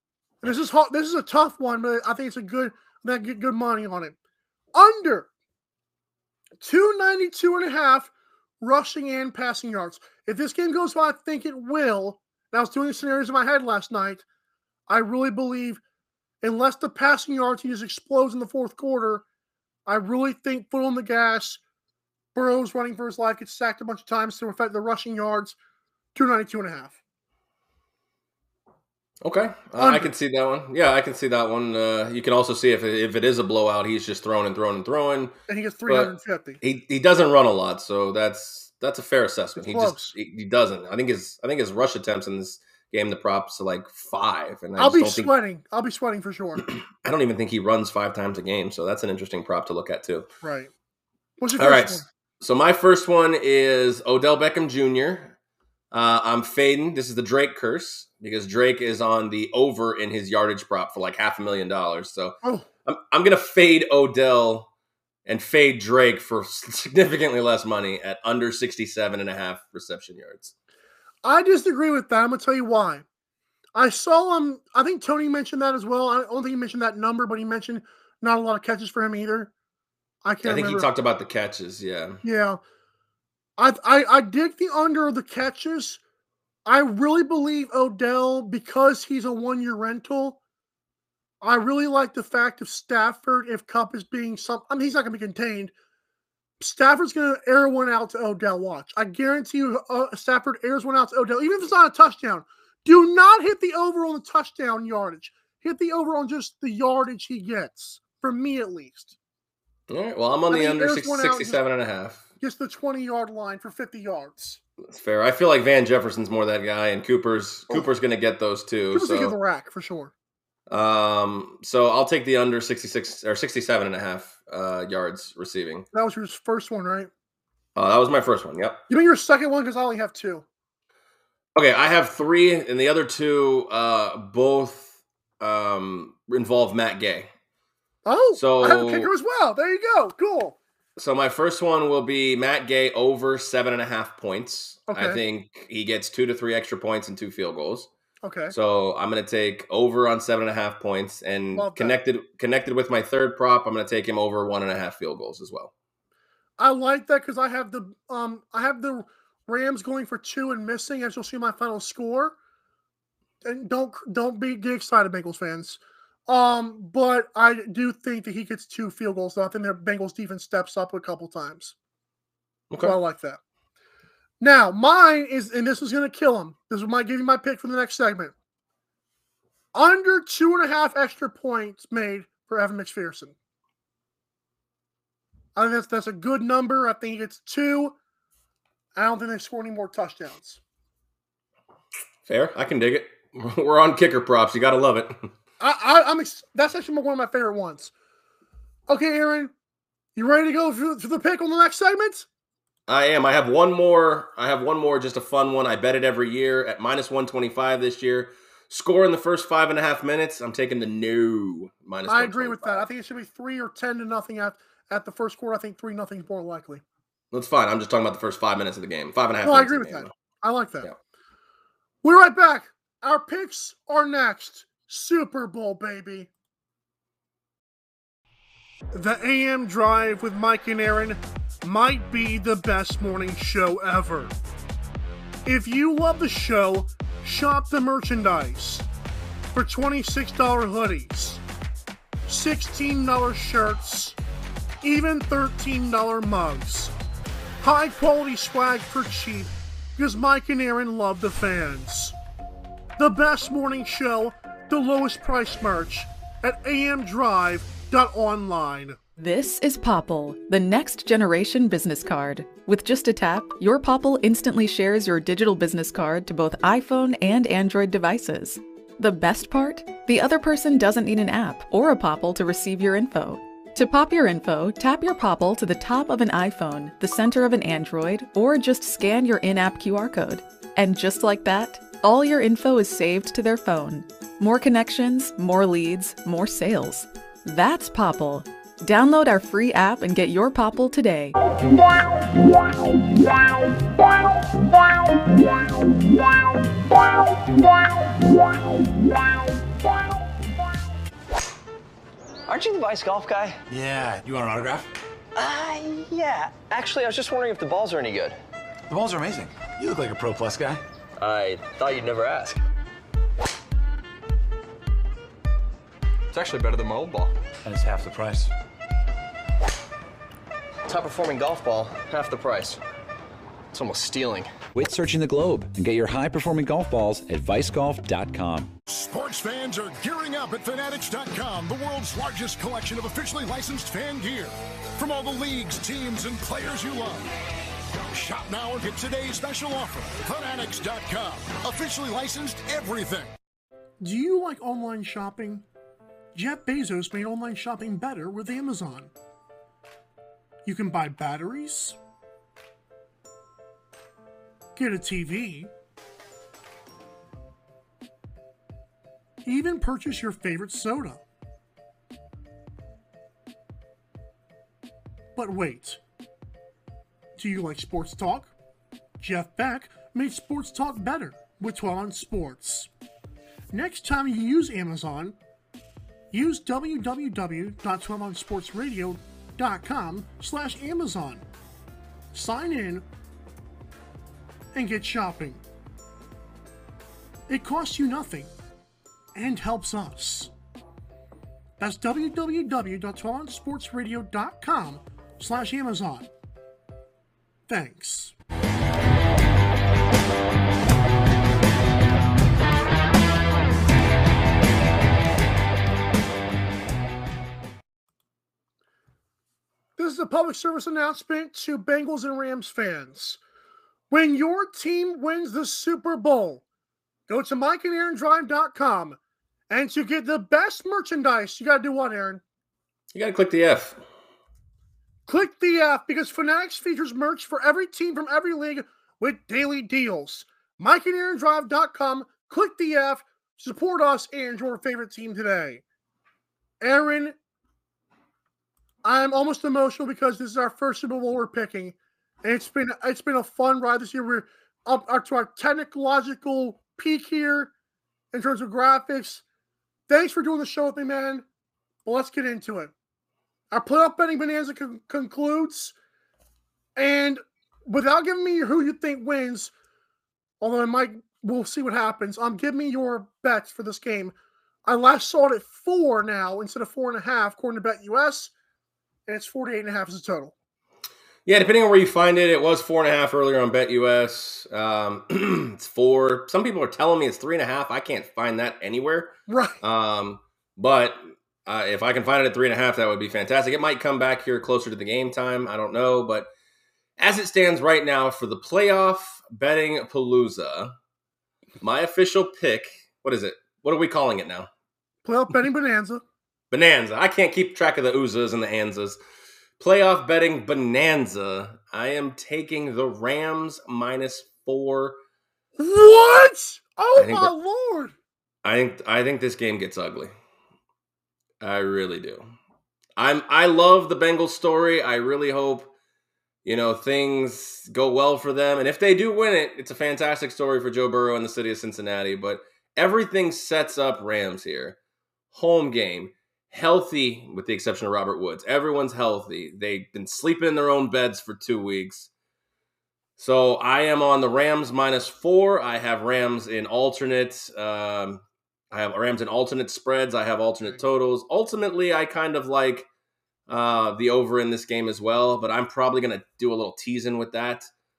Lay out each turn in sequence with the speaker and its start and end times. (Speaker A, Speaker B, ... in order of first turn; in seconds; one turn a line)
Speaker A: 0.4-4.2
Speaker A: 4.7-5.3
Speaker A: 6.6-14.2
Speaker A: 14.9-15.8
Speaker A: 16.4-19.2
Speaker A: 19.9-21.6
Speaker A: 22.3-25.6
Speaker A: 26.1-27.0
Speaker B: 29.2-35.3
Speaker A: 29.8-30.1
Speaker A: 35.5-36.6
Speaker B: 35.9-45.3
Speaker A: 39.5-40.1
Speaker A: 44.8-46.6
Speaker B: 46.6-50.2
Speaker A: 50.4-50.7
Speaker A: 51.4-52.1
Speaker B: 51.5-55.4
Speaker B: 55.9-64.7
Speaker B: 65.2-70.5
Speaker A: 71.2-73.0
Speaker A: 73.7-79.5
Speaker A: 80.2-80.9
Speaker B: 80.4-82.2
Speaker A: 82.2-82.6
Speaker A: 83.6-86.0
Speaker A: 86.7-90.4
Speaker A: 91.4-95.7
Speaker A: 96.6-109.1
Speaker B: 109.9-112.2
Speaker A: 110.5-111.6
Speaker A: 112.4-114.6
Speaker B: 114.8-119.3
Speaker A: 118.9-120.1
Speaker B: 120.7-125.8
Speaker A: 125.9-127.1
Speaker B: 127.8-128.8
Speaker A: 128.9-130.4
Speaker B: 131.6-137.3
Speaker A: 138.1-140.6
Speaker B: 138.3-139.1
Speaker B: 141.0-147.9
Speaker A: 144.9-145.2
Speaker A: 148.2-148.5
Speaker B: 148.5-155.7
Speaker A: 151.5-151.9
Speaker A: 156.6-162.4
Speaker A: 163.4-171.7
Speaker B: 172.7-173.0
Speaker A: 172.8-173.4
Speaker A: 174.4-178.3
Speaker A: 179.7-183.3
Speaker A: 185.5-187.9
Speaker A: 188.9-190.6
Speaker B: 192.2-195.3
Speaker A: 195.6-197.9
Speaker A: 198.9-199.5
Speaker A: 200.2-202.3
Speaker B: 202.9-212.8
Speaker A: 212.1-216.8
Speaker B: 217.3-220.1
Speaker A: 219.4-220.9
Speaker A: 222.0-226.3
Speaker A: 228.9-234.3
Speaker A: 235.4-238.8
Speaker A: 239.5-241.4
Speaker A: 242.3-244.2
Speaker A: 244.8-246.9
Speaker A: 247.6-252.1
Speaker A: 253.0-259.0
Speaker C: 259.2-291.3
Speaker D: 302.5-303.6
Speaker E: 303.7-304.9
Speaker D: 305.4-308.4
Speaker E: 308.9-310.8
Speaker D: 311.2-312.6
Speaker D: 316.3-317.3
Speaker E: 317.6-318.5
Speaker D: 320.9-322.8
Speaker D: 323.7-324.5
Speaker F: 324.7-328.7
Speaker G: 328.9-337.3
Speaker G: 338.1-343.3
Speaker A: 344.0-345.6
Speaker A: 346.3-349.1
Speaker A: 350.6-352.0
Speaker A: 354.8-355.7
Speaker A: 359.4-361.2
Speaker A: 365.4-366.0
Speaker A: 367.4-368.5
Speaker A: 369.2-372.9
Speaker A: 373.7-375.4
Speaker A: 376.3-381.4
Speaker A: 382.3-383.0
Speaker A: 384.7-385.6
Speaker A: 387.5-388.5
Speaker A: 389.3-390.5
Speaker A: 391.8-396.3
Speaker A: 397.7-398.3
Speaker A: 409.9-413.4
Speaker A: 414.1-416.6
Speaker A: 417.3-419.2
Speaker A: 419.7-422.4
Speaker B: 423.1-424.0
Speaker A: 425.3-435.8
Speaker A: 436.8-437.4
Speaker A: 439.0-447.7
Speaker A: 448.3-449.4
Speaker A: 450.1-451.4
Speaker A: 452.0-452.9
Speaker A: 453.7-455.9
Speaker A: 457.0-459.7
Speaker A: 460.6-464.3
Speaker A: 464.9-468.5
Speaker A: 469.3-470.5
Speaker B: 471.4-486.5
Speaker A: 479.5-479.8
Speaker B: 487.2-490.9
Speaker B: 491.8-494.7
Speaker A: 495.2-496.2
Speaker B: 496.7-499.2
Speaker B: 499.8-505.2
Speaker A: 505.8-508.1
Speaker B: 507.1-507.5
Speaker B: 508.6-510.3
Speaker B: 511.6-512.5
Speaker B: 513.1-515.9
Speaker B: 516.6-525.0
Speaker B: 525.5-532.3
Speaker B: 533.4-543.1
Speaker B: 543.7-547.9